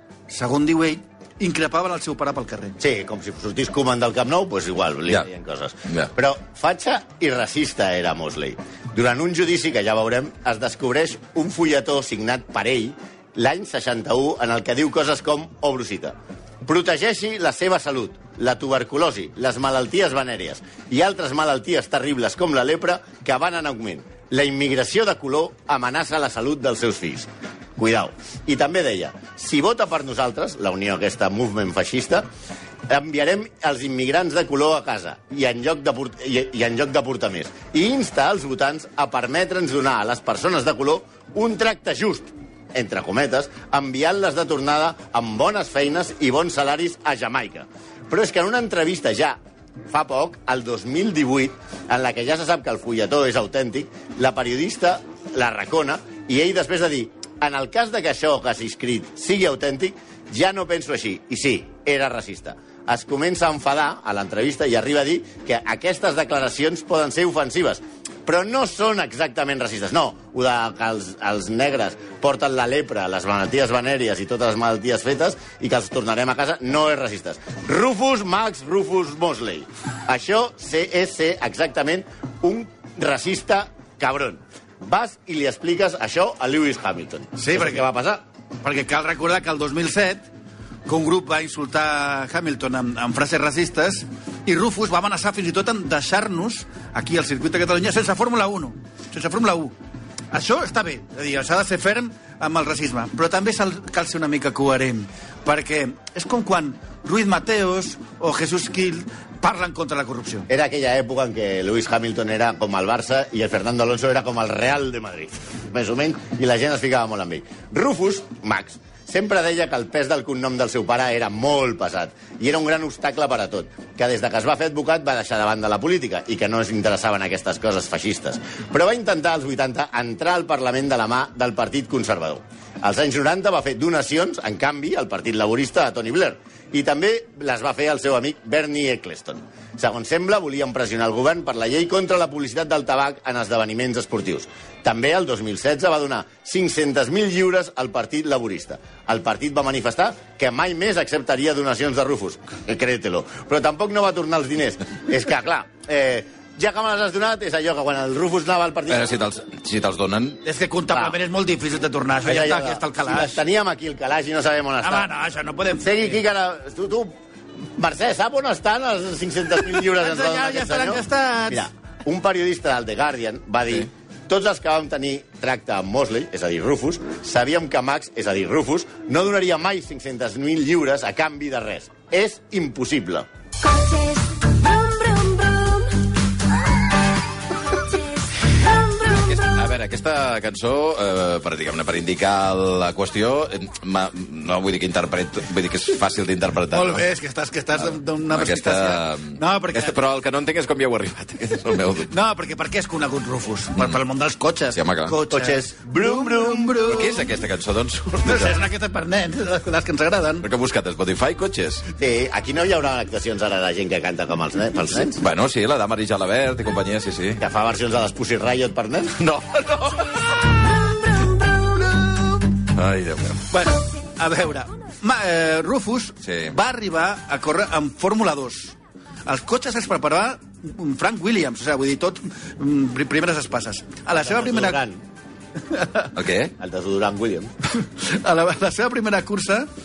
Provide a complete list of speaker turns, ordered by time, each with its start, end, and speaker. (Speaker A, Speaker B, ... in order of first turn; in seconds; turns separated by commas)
Speaker A: 0.3-2.8, Speaker B: 2.8-32.3, Speaker B: 32.9-88.2, Speaker A: 87.4-87.8, Speaker A: 88.6-90.2, Speaker A: 90.9-99.7, Speaker A: 100.3-110.5, Speaker B: 110.5-159.1, Speaker C: 158.9-160.4, Speaker A: 160.4-163.4, Speaker B: 162.2-165.1, Speaker A: 164.8-166.2, Speaker B: 165.8-167.2, Speaker B: 167.8-183.3, Speaker A: 169.9-171.7, Speaker D: 183.8-185.8, Speaker C: 188.9-197.0, Speaker A: 196.7-200.0, Speaker C: 198.3-202.1, Speaker A: 202.1-207.3, Speaker C: 204.7-205.2, Speaker B: 205.3-206.9, Speaker C: 206.9-208.6, Speaker A: 208.2-210.5, Speaker C: 210.4-211.8, Speaker B: 212.0-215.2, Speaker C: 215.2-217.4, Speaker B: 217.4-219.2, Speaker C: 219.2-220.4, Speaker A: 221.9-222.3, Speaker C: 222.7-223.4, Speaker A: 223.5-234.8, Speaker C: 226.2-226.5, Speaker B: 234.2-235.0, Speaker A: 235.7-236.1, Speaker C: 236.2-236.5, Speaker B: 236.6-237.5, Speaker A: 237.8-239.7